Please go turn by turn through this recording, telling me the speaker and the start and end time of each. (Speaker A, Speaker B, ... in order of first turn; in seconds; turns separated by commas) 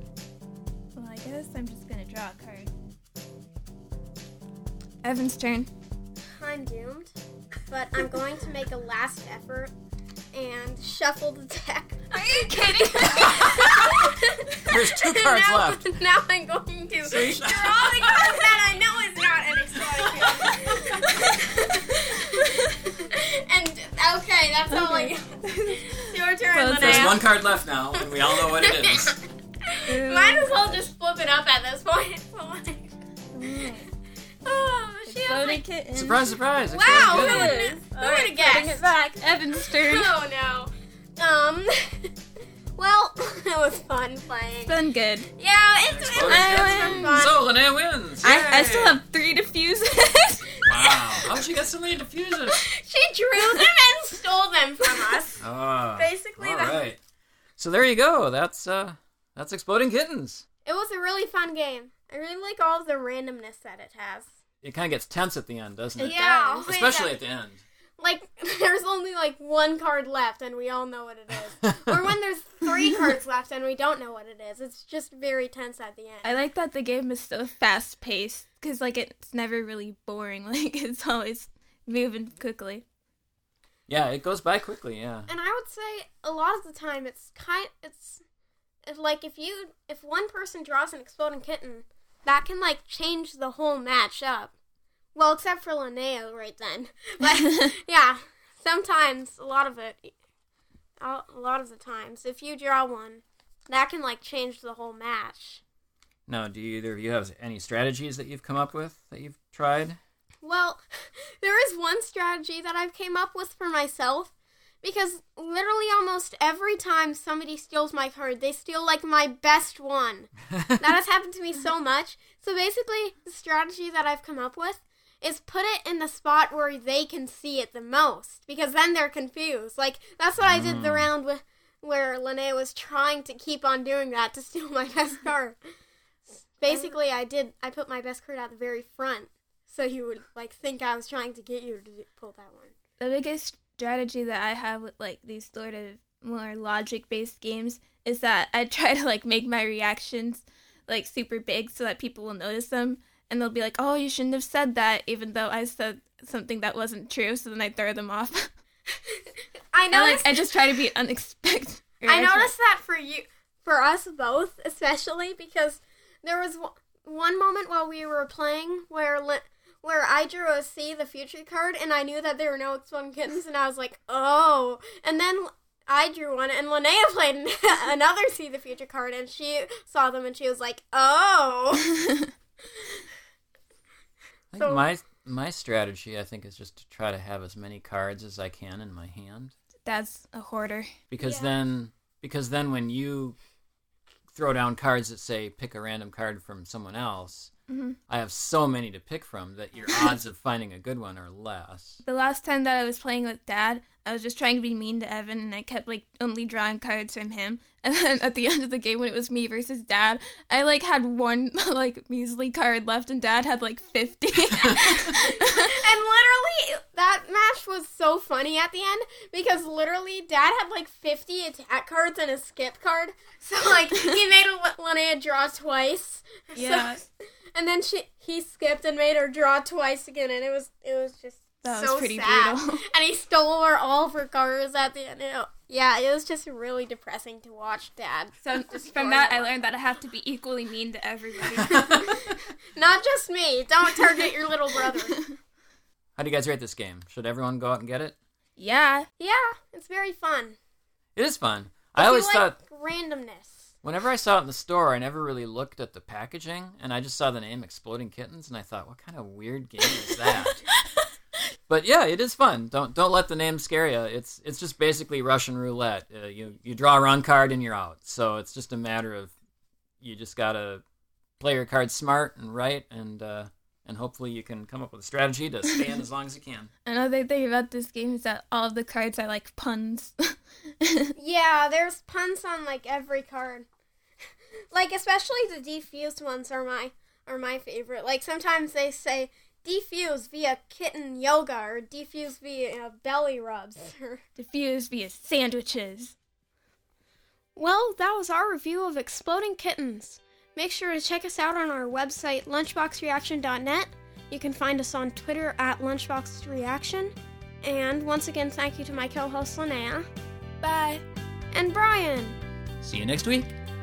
Speaker A: 1.0-2.7, Speaker A: 5.0-5.7, Speaker B: 6.4-7.1, Speaker B: 7.7-9.7, Speaker B: 10.3-27.3, Speaker A: 12.1-13.6, Speaker C: 14.7-15.9, Speaker C: 17.0-18.4, Speaker C: 20.0-20.6, Speaker A: 24.7-27.2, Speaker C: 26.8-29.1, Speaker B: 27.9-32.9, Speaker A: 29.9-30.8, Speaker A: 33.3-33.9, Speaker B: 34.4-35.6, Speaker A: 35.1-36.4, Speaker C: 36.0-37.6, Speaker B: 36.7-42.1, Speaker A: 36.9-40.2, Speaker B: 42.8-44.8, Speaker A: 44.7-45.3, Speaker B: 45.3-47.5, Speaker C: 45.9-49.0, Speaker A: 46.2-47.2, Speaker A: 48.2-50.5, Speaker C: 50.7-52.6, Speaker B: 50.8-51.3, Speaker B: 52.5-55.4, Speaker A: 54.9-55.2, Speaker C: 55.4-57.0, Speaker B: 56.0-56.9, Speaker C: 57.6-60.4, Speaker B: 60.6-64.3, Speaker C: 64.6-67.6, Speaker A: 66.0-66.7, Speaker B: 66.0-67.2, Speaker B: 68.0-76.4, Speaker C: 71.6-72.0, Speaker A: 76.2-82.8, Speaker C: 83.9-85.3, Speaker B: 85.3-88.2, Speaker B: 88.9-94.5, Speaker B: 95.2-100.2, Speaker B: 101.0-105.6, Speaker C: 106.3-110.0, Speaker B: 110.4-135.6, Speaker C: 120.6-120.9, Speaker C: 130.4-131.1, Speaker B: 136.5-142.7, Speaker A: 143.0-158.5, Speaker B: 159.7-160.5, Speaker A: 159.9-162.5, Speaker B: 162.1-181.9, Speaker C: 184.5-189.5, Speaker B: 184.6-184.9, Speaker A: 189.9-190.9, Speaker C: 191.1-193.4, Speaker B: 191.2-191.6, Speaker C: 194.3-197.5, Speaker A: 197.7-198.0, Speaker C: 198.1-202.0, Speaker A: 202.0-215.8, Speaker B: 215.4-239.5, Speaker A: 226.6-227.0, Speaker A: 231.6-232.8, Speaker A: 238.4-241.9, Speaker C: 241.5-242.3, Speaker B: 241.8-245.2, Speaker C: 246.2-248.2, Speaker A: 248.6-249.1, Speaker B: 249.2-250.6, Speaker C: 251.2-252.6, Speaker B: 251.9-253.7, Speaker C: 253.8-260.6, Speaker C: 261.7-269.3, Speaker C: 270.0-270.8, Speaker C: 271.4-276.7, Speaker A: 276.9-281.1, Speaker B: 281.2-283.7, Speaker B: 284.7-294.2, Speaker A: 294.4-296.2, Speaker B: 297.6-310.1, Speaker A: 310.6-311.0, Speaker B: 311.5-312.4, Speaker C: 312.8-313.5